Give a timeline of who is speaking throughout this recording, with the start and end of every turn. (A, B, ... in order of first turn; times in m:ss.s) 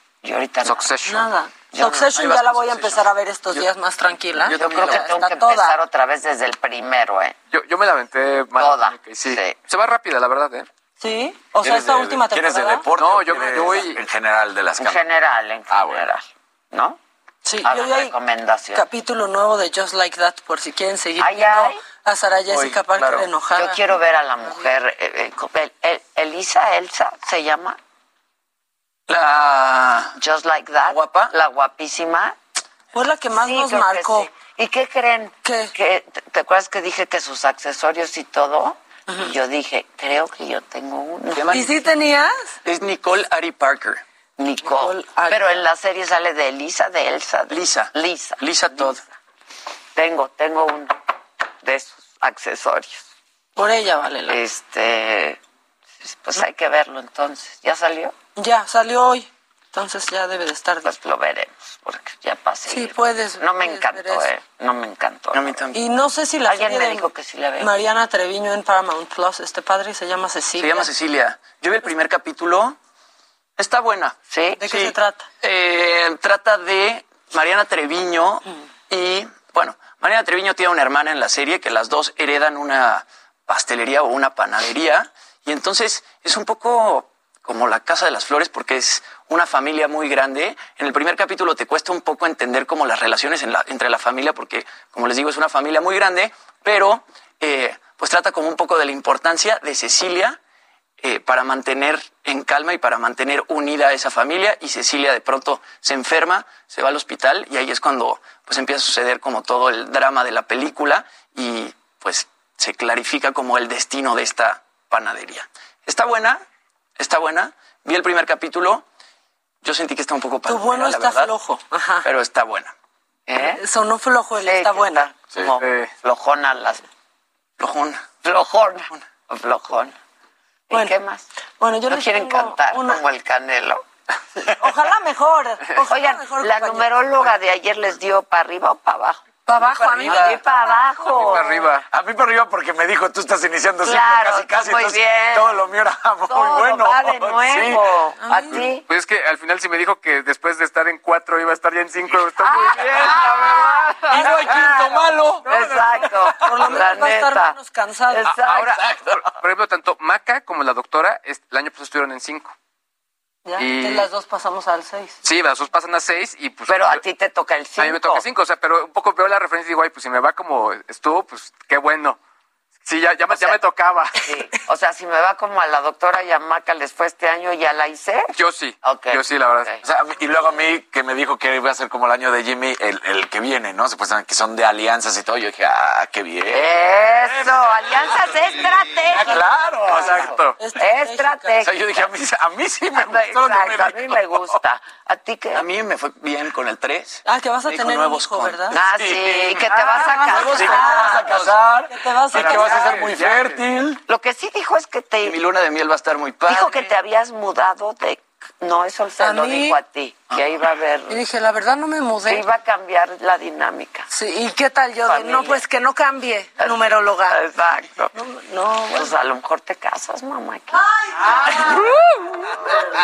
0:00.2-0:01.0 A
0:00.6-0:01.3 B
0:01.0-0:05.8 C
0:01.7-0:02.1 A
0:04.5-0:07.4 A
0:07.5-0:10.7 B
0:08.6-0:09.6 A
0:11.0-0:12.9 C
0:11.6-0:15.0 D
0:13.0-0:14.0 B
0:14.8-0:17.0 A
0:15.7-0:16.0 D
0:17.4-0:18.1 C
0:17.6-0:18.9 A
0:18.7-0:23.8 C
0:21.2-0:21.8 A
0:23.6-0:27.8 A
0:29.1-0:30.2 E
0:30.2-0:32.4 A
0:30.8-0:31.3 E
0:32.9-0:34.3 C
0:33.3-0:41.6 A
0:35.4-0:35.7 C
0:39.1-0:39.4 C
0:41.3-0:41.7 E
0:41.5-0:42.6 C
0:42.6-0:44.0 E
0:44.4-0:49.0 A
0:44.6-0:45.4 C
0:47.5-0:49.0 E
0:50.0-0:51.0 A
0:51.6-0:53.0 A
0:53.6-0:54.4 C
0:54.3-0:55.4 A
0:56.0-0:58.1 A
0:58.4-1:00.9 C
1:00.8-1:05.7 A
1:02.6-1:04.3 C
1:05.3-1:05.6 E
1:05.7-1:10.9 C
1:06.4-1:07.8 A
1:10.6-1:12.8 E
1:13.6-1:14.2 E
1:14.3-1:14.7 A
1:14.6-1:15.3 C
1:14.7-1:40.4 E
1:41.0-1:56.4 E
1:57.0-1:58.8 E
1:59.6-2:01.3 E
2:00.4-2:02.1 C
2:02.0-2:02.7 E
2:03.3-2:03.6 A
2:03.4-2:05.1 C
2:04.4-2:06.8 A
2:05.6-2:05.9 B
2:07.6-2:08.1 E
2:08.2-2:09.9 A
2:10.7-2:11.0 C
2:10.7-2:11.2 A
2:11.6-2:13.0 C
2:11.9-2:13.8 A
2:14.4-2:16.9 C
2:15.9-2:21.7 A
2:19.5-2:21.5 C
2:21.0-2:21.8 B
2:21.9-2:27.8 D
2:23.8-2:25.6 A
2:26.3-2:28.8 A
2:28.2-2:28.6 C
2:28.8-2:33.3 B
2:32.4-2:37.6 A
2:34.1-2:35.7 C
2:34.1-2:36.6 D
2:36.4-2:38.3 C
2:38.1-2:38.9 A
2:38.3-2:42.5 B
2:38.9-2:39.2 D
2:43.4-2:45.2 C
2:43.6-2:44.1 B
2:45.2-2:47.0 B
2:46.7-2:48.2 A
2:47.8-2:52.2 B
2:52.8-2:54.2 B
2:53.3-2:53.6 A
2:54.2-2:59.7 A
2:58.4-2:59.8 B
2:59.8-3:06.6 D
3:06.5-3:12.2 A
3:09.1-3:10.4 D
3:10.0-3:10.5 B
3:10.6-3:11.6 C
3:11.6-3:14.6 D
3:13.0-3:15.6 A
3:15.5-3:18.7 E
3:17.2-3:18.8 C
3:18.7-3:21.4 A
3:18.9-3:24.0 D
3:19.9-3:23.1 C
3:22.6-3:23.6 B
3:24.1-3:25.4 A
3:25.2-3:26.8 E
3:26.4-3:31.2 A
3:29.2-3:29.8 C
3:31.1-3:32.4 C
3:32.3-3:34.1 A
3:34.1-3:37.4 C
3:35.0-3:35.6 A
3:36.6-3:38.1 A
3:38.1-3:39.1 C
3:38.9-3:40.8 A